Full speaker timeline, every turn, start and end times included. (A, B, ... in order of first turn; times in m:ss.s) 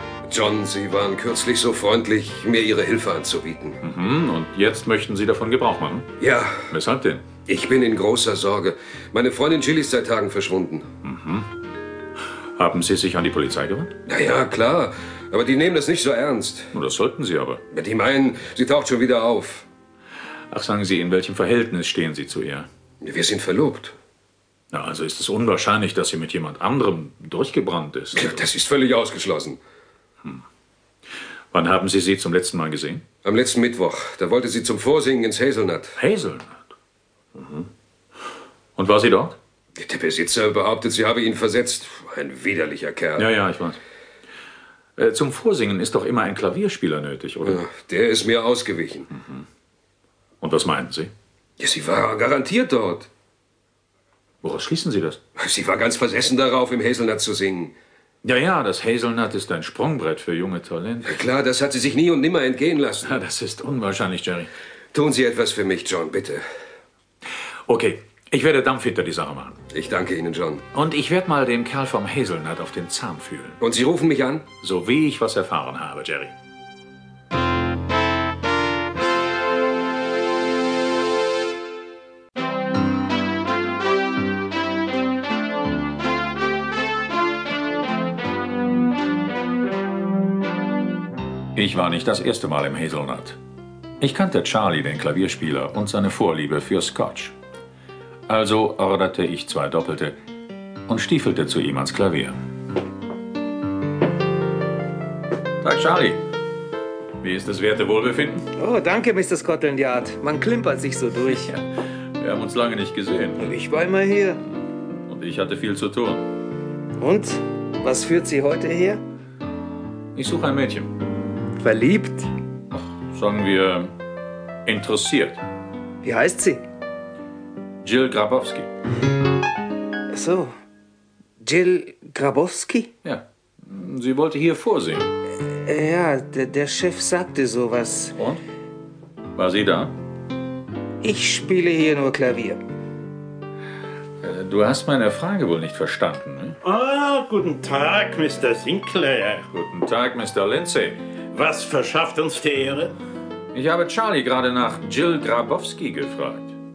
0:00.3-0:03.8 A
0:03.8-0:06.1 B
0:06.2-0:06.7 A
0:06.7-0:07.2 B
0:07.5-0:10.8 A
0:11.0-0:11.5 B
0:12.6-0:13.9 B
0:14.1-0:16.7 A
0:16.7-0:17.6 B
0:17.7-0:19.6 A
0:20.5-0:22.7 B
0:23.0-0:23.9 A
0:24.7-0:28.4 B
0:28.1-0:29.6 A
0:31.5-0:33.0 B
0:33.2-0:36.0 A
0:36.0-0:36.6 B
0:37.4-0:37.7 B
0:38.8-0:39.4 B
0:39.8-0:43.3 A
0:43.2-0:43.8 B
0:45.0-0:47.6 B
0:47.4-0:49.1 A
0:50.4-0:51.1 B
0:51.6-0:53.1 A
0:54.4-0:55.2 B
0:55.4-0:57.7 A
0:58.2-1:01.2 B
1:01.0-1:03.2 A
1:03.0-1:04.5 B
1:04.9-1:06.4 A
1:07.7-1:09.6 B
1:09.7-1:10.6 A
1:10.7-1:13.6 B
1:13.6-1:14.4 A
1:14.6-1:16.3 B
1:31.5-1:33.4 B
1:34.0-1:37.3 B
1:38.3-1:40.2 B
1:40.9-1:42.3 B
1:45.6-1:46.2 B
1:47.2-1:48.4 B
1:48.5-1:51.5 C
1:51.2-1:51.6 B
1:52.2-1:53.5 B
1:53.4-1:54.4 C
1:55.0-1:56.2 B
1:57.0-1:59.0 C
2:00.1-2:00.9 B
2:01.6-2:02.3 C
2:02.7-2:03.9 B
2:04.6-2:05.4 B
2:06.0-2:06.6 C
2:07.8-2:08.7 B
2:10.1-2:10.5 C
2:11.4-2:12.9 C
2:13.0-2:15.1 B
2:15.5-2:18.1 C
2:18.2-2:18.4 B
2:19.4-2:19.9 B
2:21.0-2:22.6 C
2:24.2-2:26.6 B
2:26.6-2:29.4 D
2:29.5-2:31.0 B
2:31.3-2:32.9 D
2:33.5-2:36.5 B